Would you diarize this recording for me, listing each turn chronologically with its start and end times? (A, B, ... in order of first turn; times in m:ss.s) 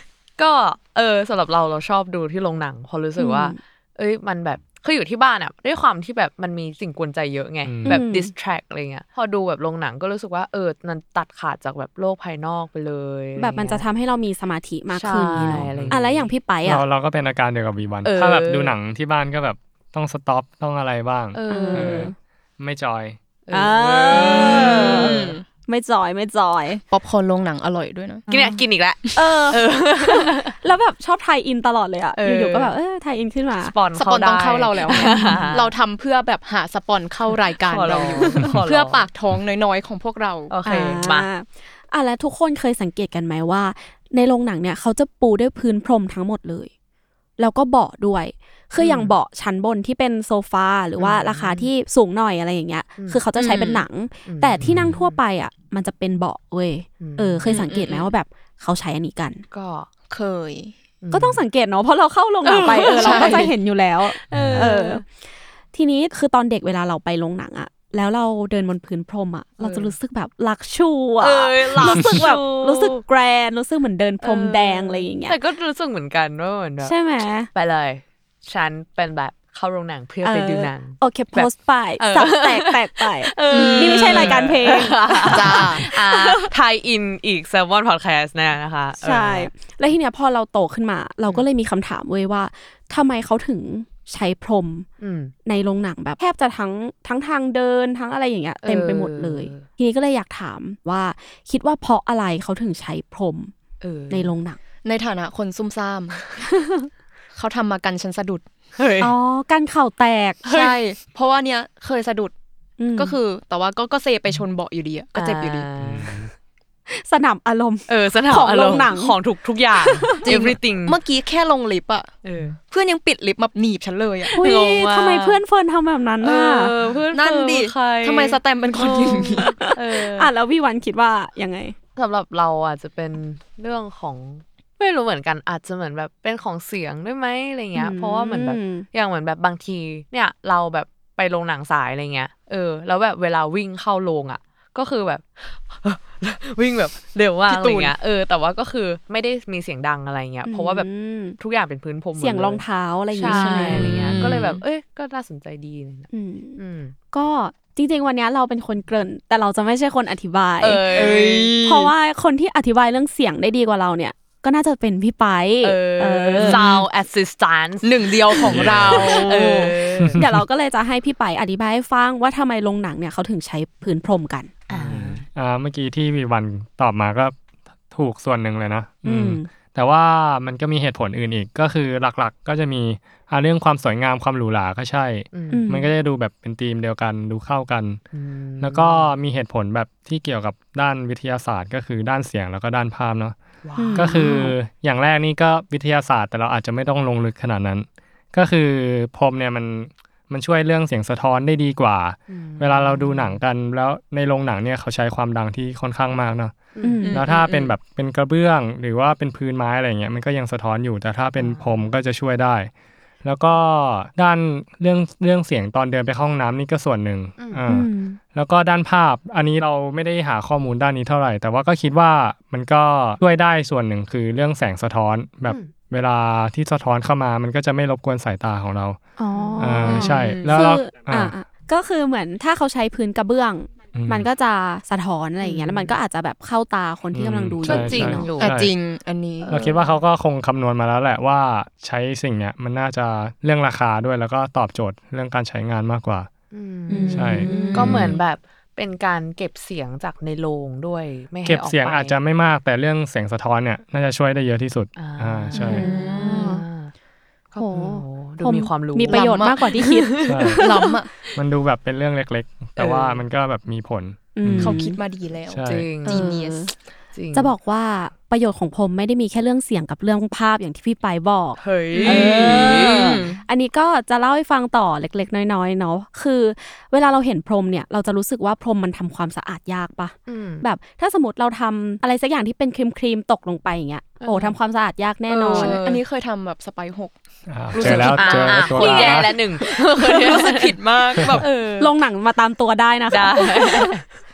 0:00.4-0:13.8 A
0:03.2-0:03.6 B
0:07.6-0:08.0 C
0:07.8-0:08.3 B
0:13.4-0:16.8 B
0:14.9-0:16.3 A
0:15.4-0:16.0 C
0:16.6-0:23.2 C
0:18.0-0:18.8 A
0:21.3-0:22.1 A
0:21.5-0:22.1 B
0:23.4-0:25.4 A
0:23.5-0:25.1 B
0:24.1-0:25.4 D
0:25.7-0:26.8 B
0:26.9-0:28.2 D
0:28.3-0:30.5 A
0:29.2-0:33.7 B
0:32.1-0:32.7 A
0:33.6-0:35.7 A
0:34.0-0:40.5 D
0:35.0-0:35.5 B
0:37.6-0:39.1 A
0:40.5-0:41.3 A
0:40.6-0:46.7 B
0:47.4-0:59.4 B
0:48.8-0:49.1 A
0:51.0-0:51.7 A
0:53.0-0:55.2 A
0:53.4-0:53.8 D
0:54.6-0:54.9 C
0:57.0-0:57.8 A
0:57.4-0:58.1 D
0:59.5-0:59.9 A
1:00.1-1:00.7 D
1:01.0-1:01.4 A
1:01.1-1:05.0 B
1:02.4-1:03.5 A
1:02.9-1:03.5 D
1:04.1-1:05.0 A
1:05.7-1:15.4 B
1:09.6-1:09.9 A
1:11.2-1:13.0 A
1:14.2-1:17.0 A
1:16.8-1:17.5 B
1:17.5-1:29.5 A
1:20.2-1:26.5 B
1:23.5-1:24.4 D
1:25.3-1:25.8 D
1:29.0-1:34.9 B
1:35.0-1:35.3 A
1:35.4-1:43.5 B
1:38.6-1:39.7 A
1:43.8-1:44.3 A
1:44.1-1:44.6 B
1:44.8-1:46.2 D
1:46.5-1:46.9 B
1:47.3-1:48.4 D
1:48.8-1:49.1 A
1:49.0-1:50.4 B
1:50.4-1:50.8 A
1:50.4-1:52.3 D
1:52.8-1:53.1 B
1:53.0-1:55.7 D
1:55.1-1:56.2 A
1:55.8-1:56.3 C
1:56.9-1:59.2 B
1:57.9-2:01.0 A
1:59.9-2:00.3 B
2:00.2-2:02.1 D
2:02.2-2:02.6 A
2:02.7-2:04.3 D
2:04.2-2:05.4 A
2:04.4-2:06.7 B
2:06.2-2:10.3 A
2:07.1-2:09.7 D
2:09.4-2:11.8 B
2:12.0-2:36.9 A
2:17.7-2:18.8 B
2:27.5-2:27.9 D
2:30.4-2:31.4 B
2:32.2-2:34.3 B
2:36.1-2:36.6 B
2:37.1-2:41.0 B
2:40.6-2:41.9 A
2:40.9-2:41.6 D
2:41.6-2:46.6 B
2:45.6-2:50.2 A
2:46.4-2:46.8 D
2:47.8-2:49.8 D
2:48.5-2:49.2 C
2:50.0-2:50.3 C
2:50.2-2:54.5 B
2:54.7-2:55.2 A
2:54.7-2:57.3 C
2:57.9-3:08.0 C
2:59.0-2:59.5 B
3:05.3-3:05.6 A
3:05.5-3:05.9 B
3:08.1-3:09.1 A
3:08.6-3:13.4 C
3:13.6-3:14.4 A
3:13.8-3:14.5 B
3:13.9-3:32.7 C
3:22.3-3:23.4 A
3:26.7-3:27.7 A
3:26.8-3:27.2 B
3:27.0-3:27.4 D
3:31.4-3:31.7 A
3:33.2-3:49.0 C
3:37.4-3:37.6 A
3:37.7-3:38.2 B
3:45.5-3:45.7 A
3:49.2-3:58.3 B
3:49.3-3:50.6 A
3:49.6-3:51.3 C
3:49.8-3:50.6 D
3:53.9-3:54.3 C
3:55.4-3:55.9 A
3:57.1-3:58.7 C
3:57.6-3:58.5 A
3:57.7-3:59.6 D
3:59.4-3:59.7 A
3:59.5-4:06.3 C
4:06.5-4:12.2 A
4:06.9-4:08.1 B
4:07.1-4:08.1 C
4:11.4-4:15.8 C
4:15.0-4:16.9 A
4:15.5-4:16.4 D
4:15.6-4:16.6 B
4:17.5-4:20.6 A
4:17.6-4:20.9 B
4:19.1-4:19.7 D
4:20.2-4:20.6 C
4:20.6-4:21.1 D
4:21.3-4:24.8 C
4:22.8-4:23.2 A
4:24.4-4:25.0 B
4:24.6-4:26.7 D
4:25.5-4:25.8 C
4:25.6-4:26.2 A
4:26.0-4:26.7 B
4:27.1-4:27.5 A
4:27.3-4:45.8 B
4:31.6-4:33.4 A
4:31.9-4:33.3 D
4:40.3-4:40.6 A
4:44.2-4:44.6 A
4:45.3-4:46.0 A
4:45.4-4:47.1 D
4:47.5-4:49.3 C
4:47.7-4:51.5 D
4:47.8-4:50.8 A
4:51.3-4:51.9 A
4:51.8-4:54.0 B
4:53.1-4:54.0 A